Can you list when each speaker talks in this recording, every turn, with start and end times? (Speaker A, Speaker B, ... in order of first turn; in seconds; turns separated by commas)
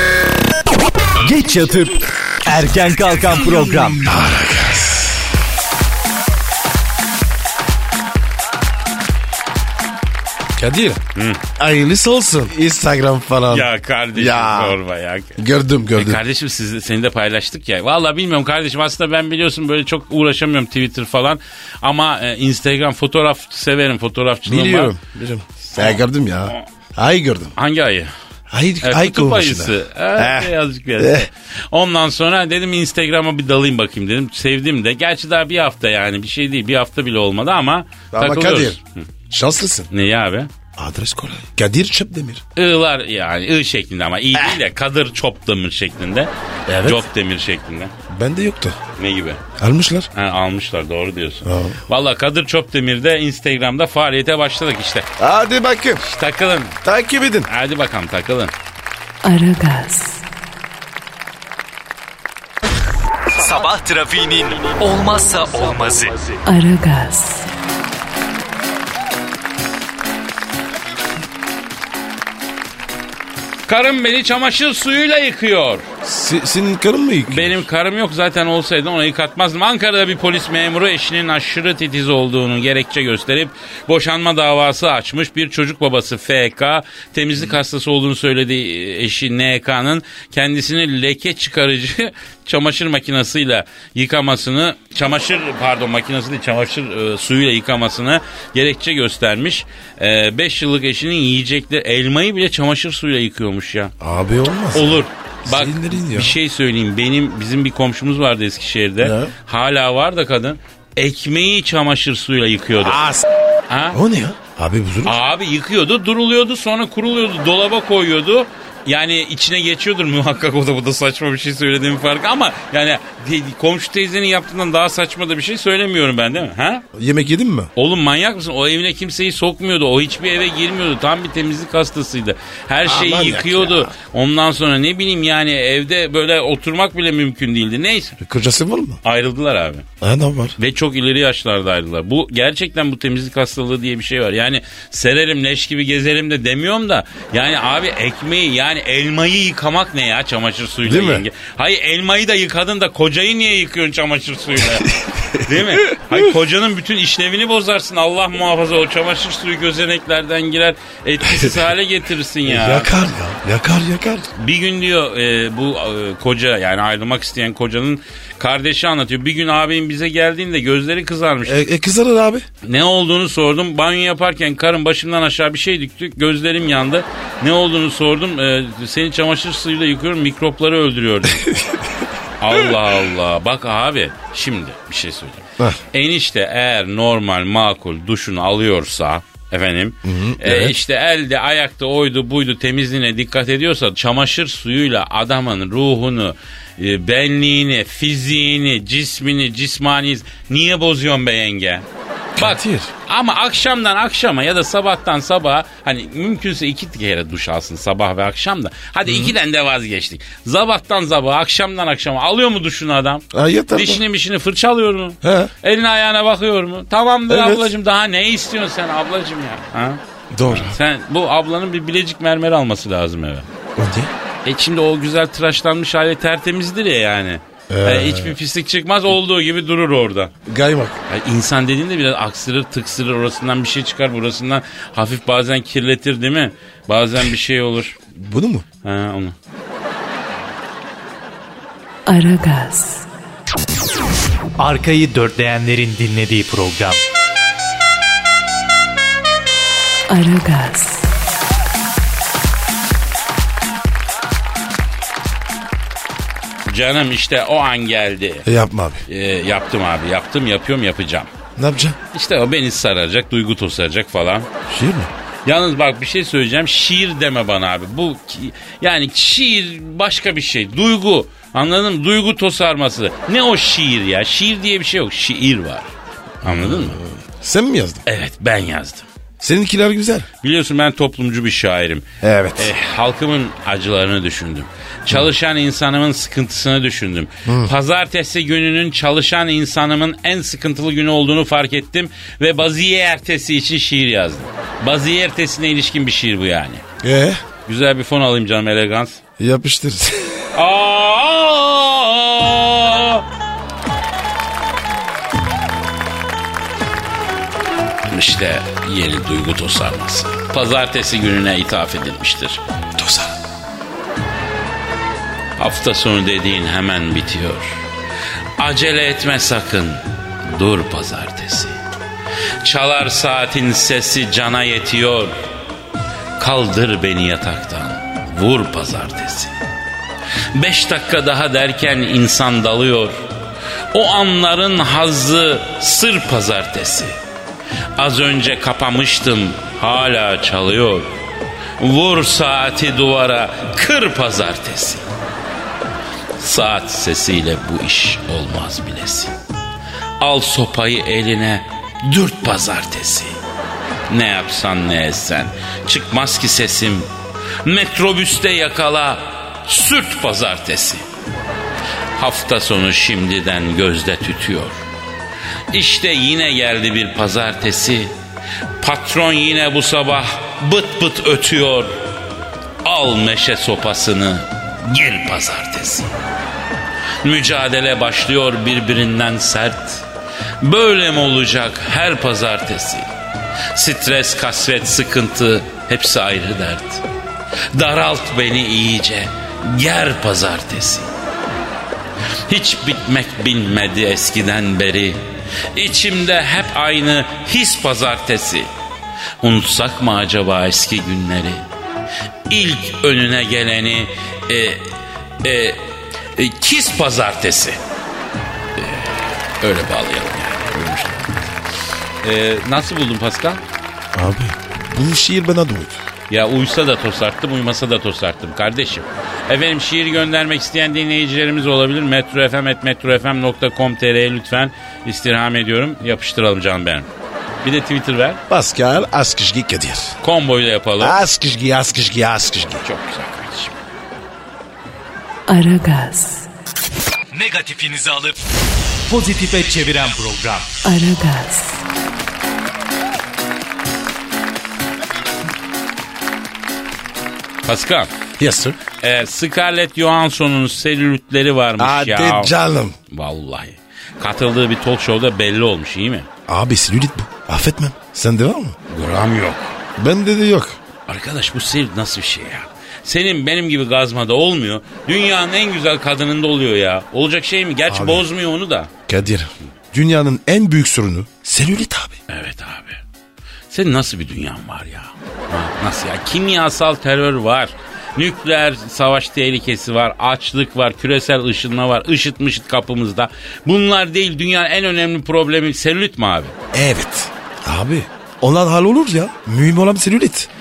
Speaker A: 1.2-4.0, Speaker B: 4.0-5.3, Speaker B: 10.6-11.0, Speaker C: 11.2-11.4, Speaker B: 11.6-14.8, Speaker C: 13.5-15.4, Speaker B: 15.4-16.2, Speaker C: 15.9-25.0, Speaker B: 24.5-27.5, Speaker C: 25.7-26.7, Speaker C: 27.6-28.1, Speaker B: 28.5-31.3, Speaker C: 28.8-39.1, Speaker B: 38.1-38.8, Speaker B: 39.3-39.9, Speaker C: 39.9-40.5, Speaker B: 40.8-42.4, Speaker C: 42.6-46.3, Speaker B: 44.3-44.6, Speaker B: 46.7-47.1, Speaker C: 46.8-47.9, Speaker B: 48.1-48.8, Speaker C: 49.0-49.4, Speaker B: 49.6-50.1, Speaker C: 50.1-55.1, Speaker B: 51.4-51.8, Speaker B: 55.2-56.0, Speaker C: 56.0-56.8, Speaker B: 56.8-57.5, Speaker C: 57.5-58.5, Speaker D: 59.2-60.2, Speaker A: 63.3-66.4, Speaker D: 66.5-67.5, Speaker C: 73.7-75.9, Speaker B: 76.0-77.6, Speaker C: 77.3-103.9, Speaker B: 104.0-106.4, Speaker C: 104.7-113.0, Speaker B: 109.0-109.3, Speaker B: 112.8-113.3, Speaker C: 113.7-114.0, Speaker B: 113.9-115.2, Speaker C: 115.0-126.8, Speaker B: 126.9-127.7, Speaker C: 127.8-138.2, Speaker B: 132.8-133.9, Speaker B: 138.2-139.0, Speaker C: 139.0-139.9, Speaker B: 140.0-140.6, Speaker C: 140.6-162.9, Speaker B: 150.8-151.3, Speaker B: 154.6-156.3, Speaker B: 161.2-161.6, Speaker B: 162.4-164.3, Speaker C: 164.4-171.6, Speaker B: 171.4-172.5, Speaker C: 172.6-181.5, Speaker B: 181.4-181.8, Speaker C: 182.4-201.9, Speaker B: 190.1-190.8, Speaker B: 202.4-202.9, Speaker C: 202.4-223.5, Speaker B: 209.1-209.3, Speaker B: 213.3-214.0, Speaker B: 215.2-215.5, Speaker B: 217.3-217.7, Speaker B: 220.3-220.8, Speaker B: 223.8-224.1, Speaker C: 224.4-230.3, Speaker B: 227.7-228.4, Speaker B: 230.5-231.0, Speaker C: 231.1-238.0, Speaker B: 238.1-238.7, Speaker C: 238.8-239.3, Speaker D: 242.1-243.1, Speaker A: 244.6-247.0, Speaker D: 250.1-251.1, Speaker C: 256.7-258.5, Speaker B: 258.4-259.0, Speaker C: 259.1-261.3, Speaker B: 261.6-262.0, Speaker C: 262.1-264.5, Speaker B: 264.7-265.1, Speaker C: 265.4-277.0, Speaker B: 276.5-278.0, Speaker C: 278.1-279.1, Speaker B: 279.4-280.3, Speaker C: 280.4-296.8, Speaker B: 282.2-282.7, Speaker B: 287.5-287.7, Speaker B: 297.0-297.4, Speaker C: 297.7-299.2, Speaker B: 299.4-300.5, Speaker C: 300.5-303.2, Speaker C: 308.1-312.6, Speaker B: 313.0-313.3, Speaker C: 315.6-317.8, Speaker C: 318.6-321.8, Speaker C: 322.6-325.3, Speaker C: 326.4-329.5, Speaker C: 330.5-333.2, Speaker C: 333.9-337.2, Speaker C: 338.0-341.2, Speaker C: 341.8-345.1, Speaker C: 346.4-349.3, Speaker C: 350.2-353.4, Speaker C: 354.1-357.1, Speaker C: 357.6-361.0, Speaker C: 362.2-364.9, Speaker C: 365.7-368.1, Speaker C: 368.8-372.0, Speaker C: 372.8-376.1, Speaker C: 377.2-380.1, Speaker C: 380.6-383.1, Speaker C: 383.7-387.0, Speaker C: 387.7-391.1, Speaker C: 392.5-398.7, Speaker C: 399.4-401.6, Speaker C: 402.5-407.8, Speaker C: 408.8-411.6, Speaker C: 412.2-413.6, Speaker B: 414.1-416.0, Speaker C: 416.3-427.1, Speaker C: 427.6-428.4, Speaker B: 428.5-430.2, Speaker C: 430.2-431.2, Speaker B: 431.0-432.8, Speaker C: 432.8-433.8, Speaker D: 435.5-436.5, Speaker A: 437.3-438.4, Speaker A: 439.1-440.8, Speaker D: 440.8-441.8, Speaker C: 447.6-448.1, Speaker B: 448.4-448.8, Speaker C: 449.0-452.5, Speaker B: 451.8-453.0, Speaker C: 453.1-456.3, Speaker B: 456.5-458.8, Speaker C: 458.9-459.8, Speaker B: 460.0-460.8, Speaker C: 461.1-468.9, Speaker B: 467.9-468.3, Speaker B: 469.1-472.2, Speaker C: 472.3-473.0, Speaker C: 473.7-486.5, Speaker B: 486.7-490.5